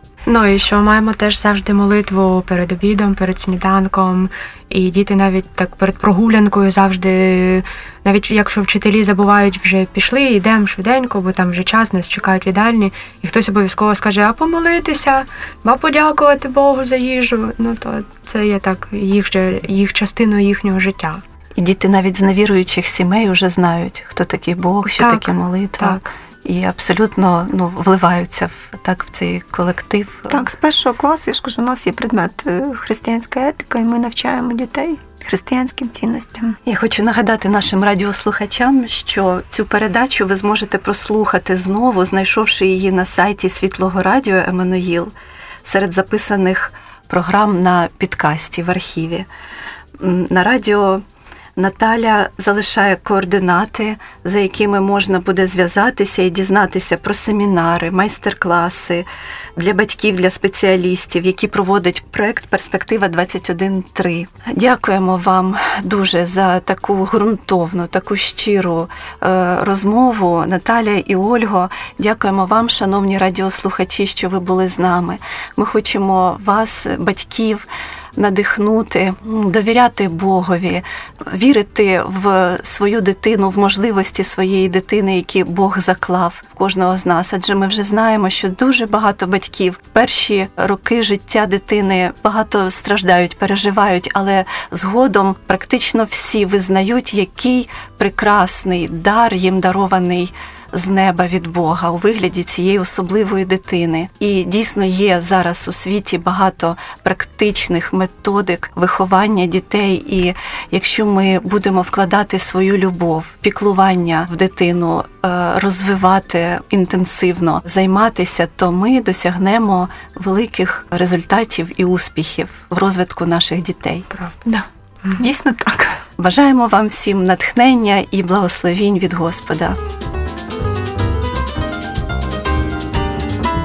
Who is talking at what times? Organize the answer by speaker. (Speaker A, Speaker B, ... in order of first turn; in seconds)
Speaker A: 0.3-21.2, 24.9-26.1
Speaker B: 21.6-30.5, 36.7-45.1, 45.6-49.3, 50.0-51.0, 51.6-124.1, 126.2-129.8
Speaker C: 30.3-36.6, 125.1-126.0